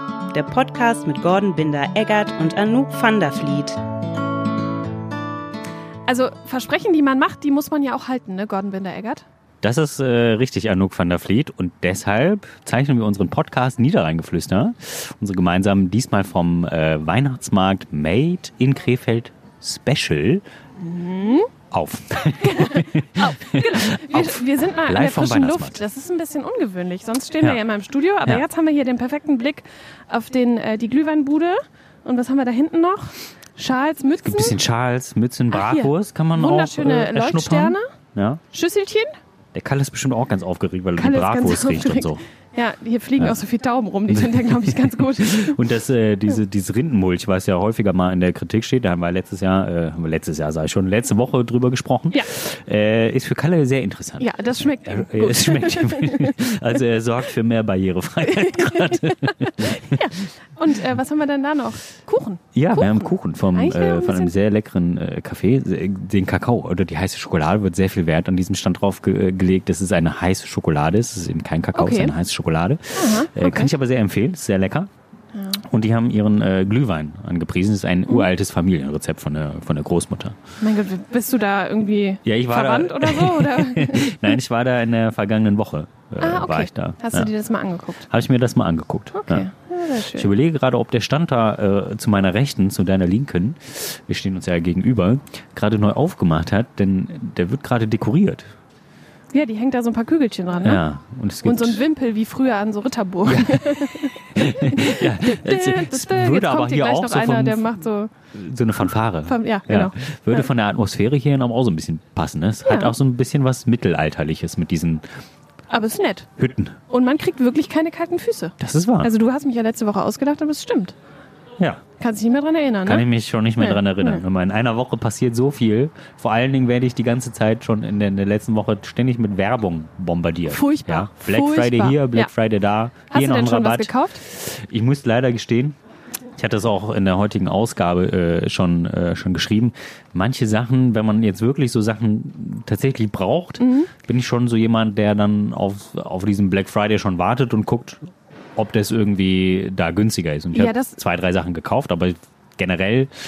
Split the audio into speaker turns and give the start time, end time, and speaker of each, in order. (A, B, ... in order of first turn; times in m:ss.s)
0:00.3-0:03.8 A
0:06.1-0:09.2 B
0:09.6-0:20.4 C
0:20.8-0:21.5 B
0:21.7-0:25.8 C
0:22.2-0:34.6 B
0:34.2-0:38.4 C
0:35.5-0:37.9 B
0:38.5-0:39.1 B
0:39.5-0:42.2 C
0:41.0-0:45.6 B
0:44.1-0:54.3 C
0:54.2-0:56.4 B
0:54.8-1:00.1 C
0:58.4-1:04.3 B
1:02.6-1:14.9 C
1:11.8-1:12.2 B
1:12.9-1:13.7 B
1:15.5-1:20.4 C
1:20.6-1:24.3 B
1:22.2-1:27.3 C
1:26.2-1:28.1 B
1:28.1-1:29.5 C
1:29.2-1:30.3 B
1:30.1-1:38.5 C
1:39.3-1:40.8 B
1:40.6-1:41.8 C
1:41.4-1:48.1 B
1:43.2-1:47.7 C
1:48.3-1:55.0 C
1:49.3-1:50.5 B
1:52.7-1:53.0 B
1:55.7-1:56.3 B
1:56.4-1:56.8 C
1:56.9-2:01.0 B
1:58.6-1:59.1 C
2:02.0-2:03.1 B
2:02.8-2:15.8 C
2:03.6-2:04.2 B
2:10.5-2:12.3 B
2:13.1-2:14.2 B
2:16.4-2:28.0 C
2:23.6-2:23.9 B
2:28.6-2:33.1 C
2:30.5-2:31.0 B